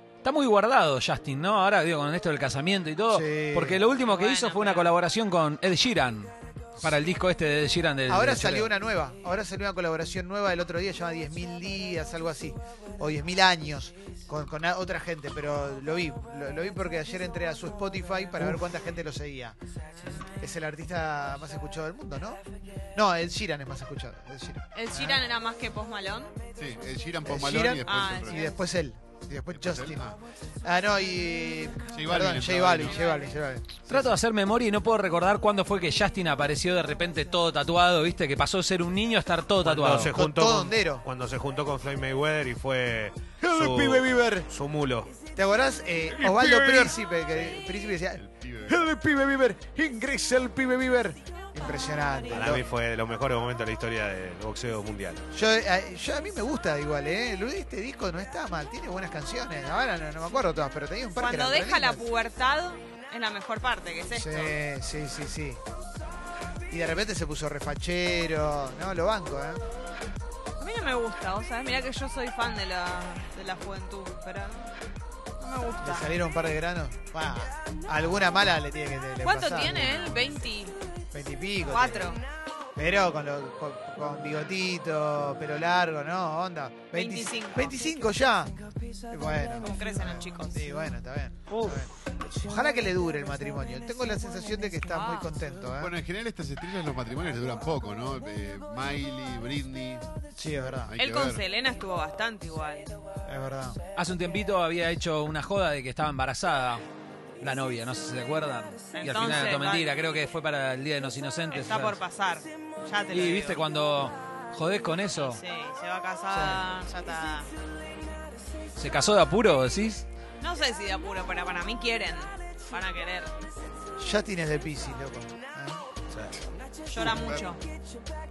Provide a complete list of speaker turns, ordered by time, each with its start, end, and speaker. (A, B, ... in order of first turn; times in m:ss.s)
0:00.2-0:08.7 A
0:03.1-0:03.8 B
0:04.0-0:04.9 C
0:08.1-0:19.6 B
0:20.3-0:22.4 B
0:22.9-0:25.2 B
0:24.7-0:26.3 C
0:26.6-0:28.4 D
0:27.2-0:33.8 B
0:27.8-0:28.6 C
0:29.5-0:30.2 D
0:31.9-0:33.0 D
0:32.8-0:33.4 C
0:33.9-0:34.2 D
0:33.9-0:40.1 A
0:39.6-0:45.1 E
0:40.1-0:41.0 B
0:43.4-0:44.5 B
0:45.3-0:52.6 B
0:46.2-0:46.9 E
0:47.3-0:48.9 D
0:52.3-0:55.3 E
0:55.3-1:02.0 B
1:01.2-1:04.6 C
1:04.1-1:05.6 B
1:06.7-1:09.6 B
1:10.6-1:14.7 C
1:15.4-1:16.1 C
1:15.8-1:20.2 B
1:19.2-1:20.7 C
1:21.1-1:22.1 B
1:21.7-1:22.2 C
1:22.8-1:28.6 B
1:26.9-1:27.7 C
1:29.1-1:35.9 B
1:29.6-1:30.8 C
1:31.5-1:31.8 E
1:34.9-1:35.3 C
1:35.8-1:40.1 D
1:40.4-1:40.9 B
1:40.7-1:41.4 D
1:41.0-1:42.9 C
1:43.2-1:43.8 B
1:44.0-1:46.8 A
1:47.4-1:52.0 A
1:48.9-1:49.9 C
1:51.5-1:53.6 C
1:53.1-1:55.4 A
1:55.2-1:57.5 C
1:56.3-1:56.6 B
1:58.8-2:00.0 A
2:00.4-2:03.3 C
2:04.0-2:05.8 B
2:06.1-2:06.4 E
2:06.9-2:07.6 C
2:07.0-2:07.4 D